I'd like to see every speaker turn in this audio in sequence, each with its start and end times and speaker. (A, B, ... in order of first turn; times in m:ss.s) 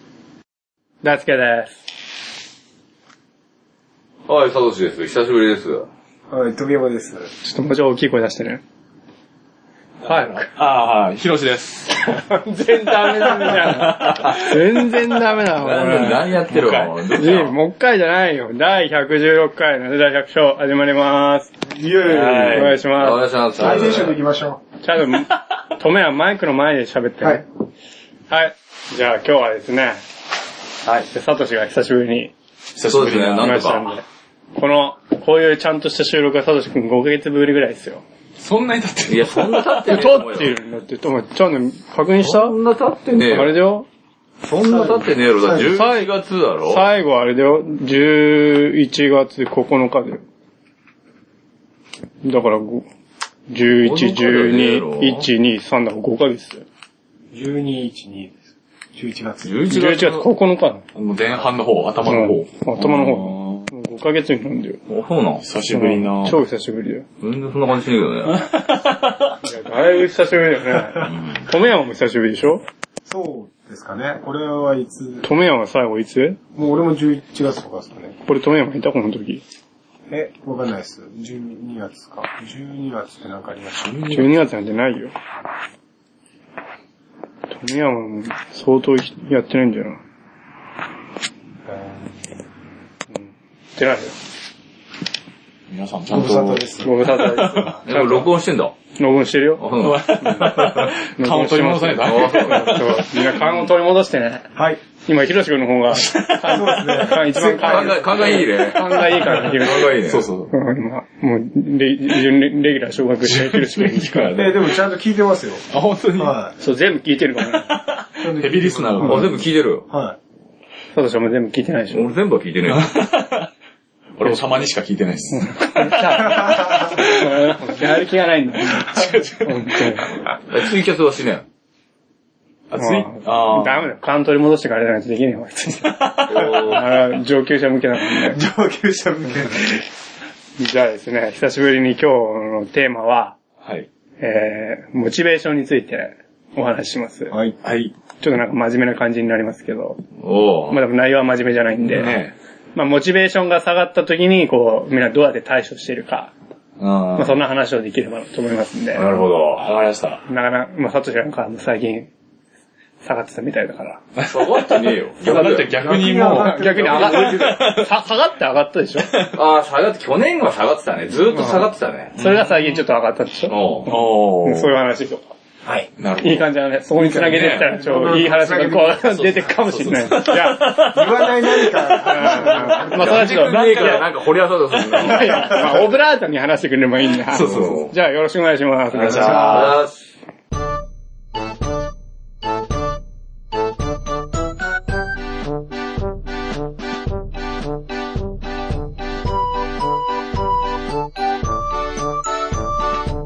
0:01.0-0:01.8 A
0:04.3-0:05.9 B
0:06.3-0:07.3 C
0:07.4-0:08.6 A
0:10.0-0:12.2 D
0:10.0-0:10.5 A
0:12.1-0:16.4 A
0:13.0-0:14.8 D
0:15.5-0:17.5 B
0:16.5-0:16.9 D
0:17.1-0:21.5 A
0:21.6-0:22.8 C
0:22.0-0:23.2 A
0:22.2-0:24.2 B
0:23.6-0:24.6 C
0:23.6-0:24.0 D
0:24.8-0:27.4 A
0:28.3-0:30.0 A
0:31.1-0:32.3 A
0:32.8-0:33.6 D
0:32.9-0:33.9 B
0:33.4-0:38.0 A
0:38.4-0:40.0 D
0:39.1-0:40.6 B
0:39.8-0:42.6 A
0:42.2-0:43.6 B
0:43.2-0:43.9 A
0:44.4-0:46.8 B
0:44.7-0:45.7 C
0:45.5-0:46.1 A
0:46.7-0:50.2 A
0:52.2-0:52.8 A
0:53.5-0:56.6 A
0:53.7-0:55.3 B
0:57.3-0:58.4 C
0:58.9-0:59.6 C
0:59.4-1:00.2 B
0:59.7-1:00.8 A
1:00.9-1:03.7 D
1:02.0-1:04.8 A
1:04.9-1:05.4 B
1:05.4-1:06.4 D
1:05.7-1:07.0 A
1:07.2-1:08.4 B
1:08.3-1:09.4 D
1:09.4-1:12.6 A
1:13.0-1:15.3 C
1:15.2-1:16.4 A
1:16.5-1:18.1 C
1:18.2-1:19.4 A
1:20.1-1:24.2 C
1:23.8-1:24.3 D
1:24.1-1:25.1 A
1:27.5-1:30.0 A
1:31.7-1:32.0 C
1:33.1-1:34.1 A
1:35.7-1:37.7 D
1:36.1-1:37.6 C
1:36.8-1:38.3 A
1:37.9-1:38.7 B
1:39.0-1:39.6 A
1:39.6-1:40.9 B
1:39.8-1:43.6 D
1:41.2-1:44.4 A
1:42.0-1:42.8 B
1:44.5-1:44.8 C
1:45.0-1:50.0 A
1:45.9-1:47.0 D
1:46.4-1:48.4 C
1:47.6-1:50.3 B
1:48.8-1:50.5 D
1:50.5-1:54.3 A
1:53.2-1:54.8 D
1:54.3-1:55.6 C
1:55.7-1:56.4 D
1:56.2-1:56.5 C
1:56.6-1:57.7 A
1:57.4-1:59.4 D
1:58.2-2:00.2 C
1:59.0-1:59.8 B
2:00.9-2:02.1 A
2:01.9-2:02.9 B
2:02.7-2:03.5 D
2:04.2-2:07.9 D
2:05.3-2:10.1 A
2:06.3-2:06.9 C
2:08.6-2:10.0 D
2:10.5-2:11.4 B
2:12.7-2:13.9 D
2:12.8-2:18.4 A
2:15.8-2:16.8 D
2:16.3-2:16.8 B
2:18.2-2:19.8 C
2:20.6-2:23.4 A
2:23.6-2:23.9 D
2:24.2-2:27.3 A
2:27.3-2:27.6 C
2:27.6-2:27.9 D
2:28.2-2:30.0 A
2:30.2-2:30.8 B
2:30.7-2:32.2 A
2:31.8-2:32.3 D
2:32.7-2:36.3 A
2:36.8-2:37.4 D
2:37.2-2:39.1 A
2:38.9-2:39.7 B
2:39.6-2:40.2 D
2:40.3-2:42.1 A
2:43.0-2:44.0 A
2:44.2-2:47.9 D
2:44.3-2:45.8 B
2:45.3-2:47.6 C
2:46.2-2:49.1 A
2:49.1-2:49.4 D
2:49.3-2:52.1 B
2:51.3-2:55.2 A
2:52.2-2:52.8 D
2:53.5-2:53.9 B
2:53.9-2:54.7 D
2:56.0-2:56.5 D
2:56.2-3:00.7 A
2:57.0-2:59.5 C
2:57.0-2:58.1 D
2:59.0-3:05.6 D
3:00.8-3:03.4 C
3:02.0-3:04.0 A
3:03.0-3:05.6 B
3:05.0-3:09.7 A
3:05.3-3:05.8 C
3:07.3-3:07.9 D
3:07.3-3:07.9 B
3:08.9-3:09.8 D
3:09.1-3:09.8 C
3:09.2-3:09.9 B